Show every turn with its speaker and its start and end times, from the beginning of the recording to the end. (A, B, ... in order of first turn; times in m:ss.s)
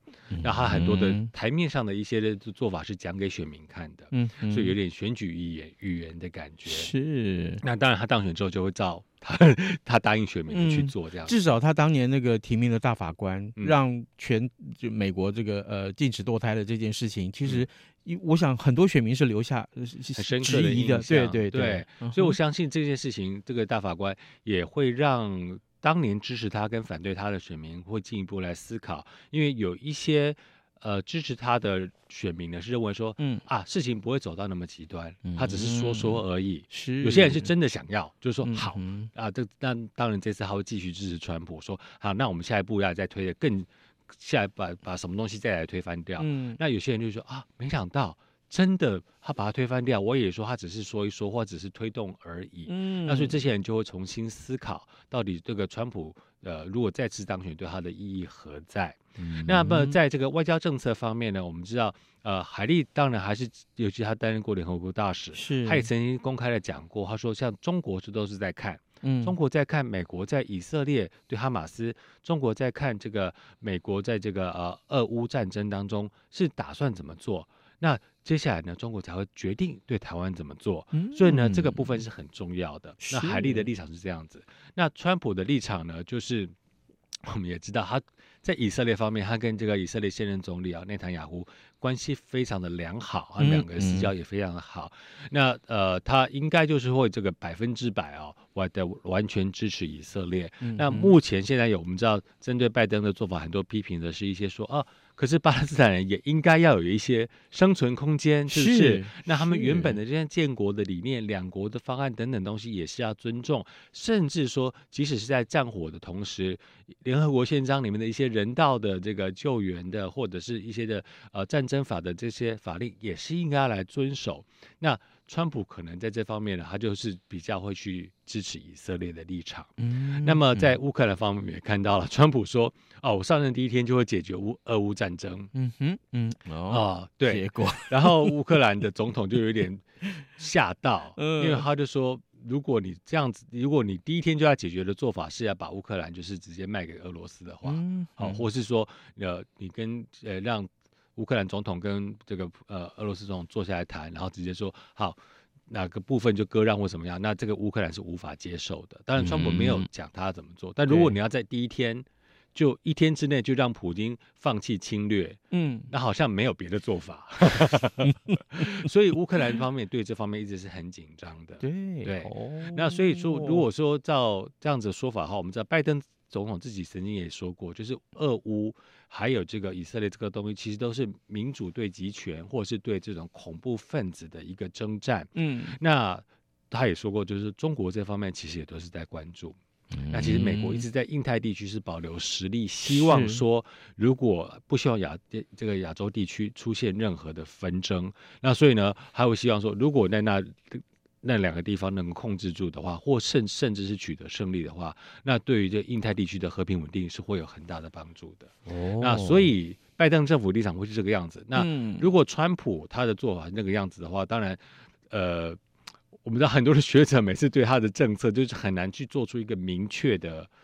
0:00.3-0:01.3 A
0:00.4-0:06.9 B
0:04.1-0:04.8 A
0:06.7-0:07.6 A
0:07.6-0:11.3 B
0:10.5-0:22.4 A
0:20.1-1:26.5 B
0:33.2-0:33.4 A
0:35.2-0:37.5 A
0:38.4-0:39.1 A
0:46.2-0:46.6 A
0:52.7-0:53.4 A
0:59.2-1:00.0 A
1:05.3-1:05.9 A
1:09.0-1:09.4 A
1:20.9-1:22.0 A
1:23.0-1:23.7 A
1:27.2-2:15.5 B
1:33.4-1:34.1 A
1:40.6-1:41.1 A
1:48.5-1:50.0 A
2:09.8-2:10.8 A
2:15.5-2:18.4 A
2:16.7-3:09.6 B
2:21.2-2:21.6 A
2:27.6-2:28.4 A
2:39.2-2:39.9 A
2:40.9-2:41.1 A
2:45.5-2:45.9 A
2:48.0-2:48.8 A
2:51.6-2:53.6 A
3:05.3-3:05.8 A
3:09.9-3:10.8 A
3:10.1-3:35.6 B
3:12.9-3:13.4 A
3:28.6-3:29.5 A
3:31.5-3:32.1 A
3:36.2-3:40.5 B